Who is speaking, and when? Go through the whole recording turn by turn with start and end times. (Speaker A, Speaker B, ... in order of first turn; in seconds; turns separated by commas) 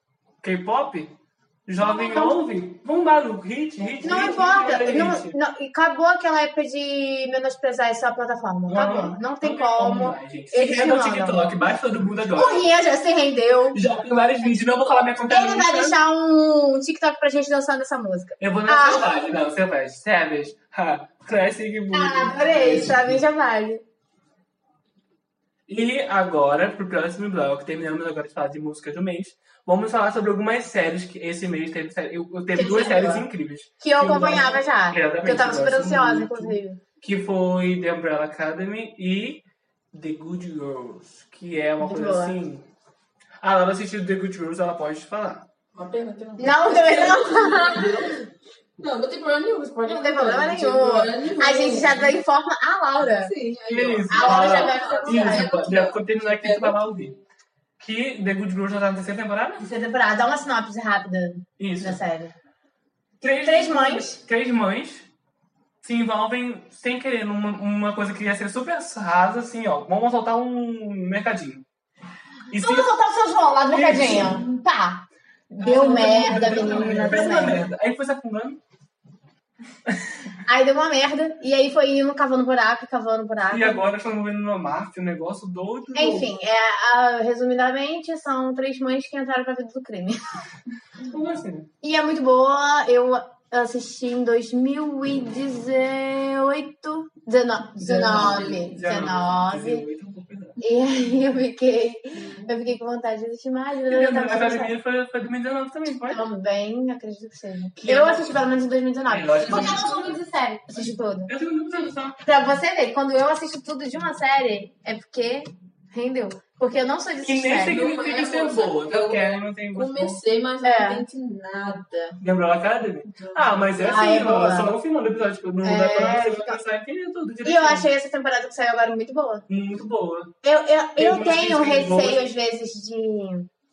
Speaker A: 0.4-5.3, Speaker B: 1.8-2.4, Speaker B: 4.0-11.5, Speaker A: 8.7-12.6, Speaker B: 12.3-13.8, Speaker A: 13.7-16.0, Speaker B: 15.3-19.1, Speaker A: 18.4-23.2, Speaker B: 21.9-23.8, Speaker A: 25.7-42.7, Speaker B: 32.5-33.3, Speaker B: 33.8-36.8, Speaker B: 41.8-42.4, Speaker A: 43.4-45.5, Speaker C: 45.7-48.3, Speaker B: 46.4-48.2, Speaker C: 48.8-52.2, Speaker B: 49.9-53.3, Speaker C: 53.1-56.9, Speaker A: 53.7-57.2, Speaker B: 54.1-55.5, Speaker A: 57.8-59.6, Speaker B: 59.6-62.3, Speaker A: 61.6-62.0, Speaker A: 63.2-65.1, Speaker B: 63.5-64.2, Speaker A: 65.8-71.7, Speaker A: 72.5-73.0, Speaker B: 72.6-77.6, Speaker A: 73.7-74.5, Speaker A: 75.6-78.6, Speaker C: 76.0-77.2, Speaker B: 80.5-83.8, Speaker A: 83.5-86.3, Speaker B: 86.0-90.2, Speaker A: 91.0-91.7, Speaker B: 91.8-99.9, Speaker A: 97.8-100.6, Speaker B: 100.6-104.7, Speaker A: 103.9-106.2, Speaker B: 106.1-111.3, Speaker A: 107.8-108.2, Speaker A: 109.1-110.1, Speaker C: 109.4-110.1, Speaker A: 110.8-112.2, Speaker B: 112.2-117.9, Speaker A: 117.2-120.2, Speaker C: 117.7-122.2, Speaker B: 120.6-121.0, Speaker A: 122.2-127.9, Speaker C: 123.1-123.7, Speaker B: 123.8-124.8, Speaker B: 125.6-126.6, Speaker B: 127.4-129.4, Speaker A: 129.5-130.3, Speaker B: 130.4-133.5, Speaker A: 131.0-132.2